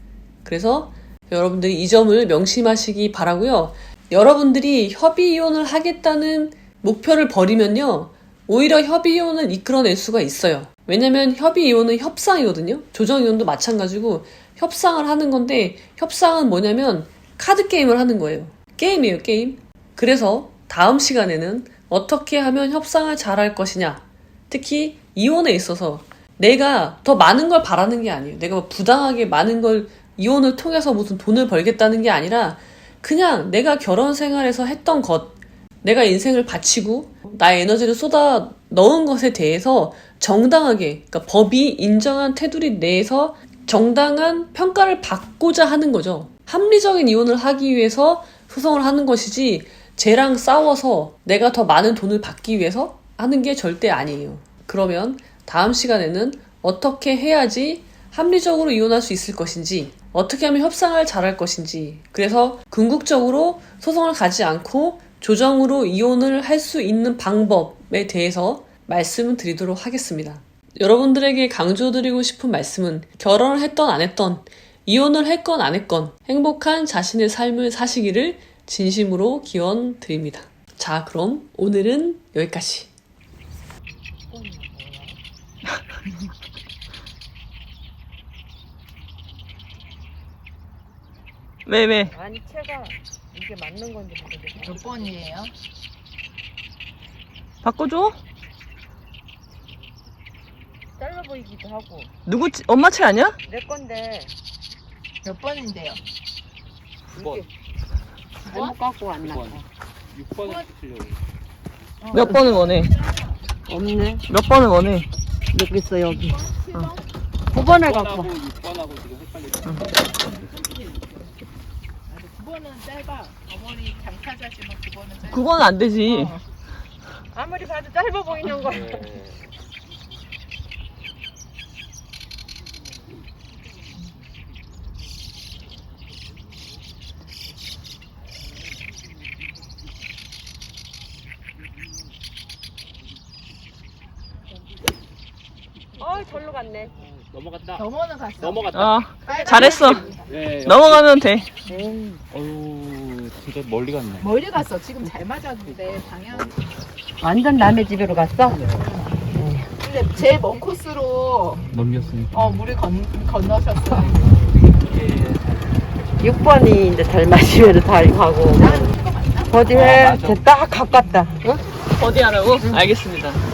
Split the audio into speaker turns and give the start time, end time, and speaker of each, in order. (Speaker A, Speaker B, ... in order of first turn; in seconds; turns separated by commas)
Speaker A: 0.4-82.9, Speaker B: 84.3-85.2, Speaker C: 91.7-92.1, Speaker B: 92.1-95.2, Speaker D: 94.6-95.5, Speaker C: 97.6-98.2, Speaker B: 101.0-102.1, Speaker C: 102.2-103.4, Speaker B: 103.5-104.3, Speaker D: 105.2-106.0, Speaker B: 107.1-107.5, Speaker E: 107.2-107.5, Speaker D: 108.4-108.7, Speaker B: 108.5-109.6, Speaker E: 108.6-111.2, Speaker D: 112.0-113.3, Speaker C: 112.1-113.0, Speaker B: 112.2-112.6, Speaker B: 113.7-114.2, Speaker C: 114.3-115.1, Speaker B: 115.5-116.5, Speaker D: 116.1-117.0, Speaker B: 117.5-118.3, Speaker E: 117.8-119.8, Speaker D: 122.1-126.4, Speaker C: 125.3-126.4, Speaker B: 127.3-129.2, Speaker D: 128.5-128.7, Speaker E: 128.6-129.3, Speaker B: 146.0-146.9, Speaker E: 147.2-147.8, Speaker D: 147.8-150.3, Speaker E: 148.4-149.3, Speaker C: 148.7-151.5, Speaker E: 150.3-151.1, Speaker B: 151.7-152.2, Speaker E: 152.3-154.3, Speaker D: 154.2-156.5, Speaker B: 157.2-158.7, Speaker D: 158.5-161.7, Speaker B: 159.3-159.7, Speaker E: 161.7-162.4, Speaker D: 162.3-164.3, Speaker E: 164.9-165.4, Speaker B: 166.2-168.9, Speaker D: 168.5-169.7, Speaker B: 169.5-171.6, Speaker E: 169.6-170.5, Speaker D: 171.0-171.4, Speaker C: 172.0-173.4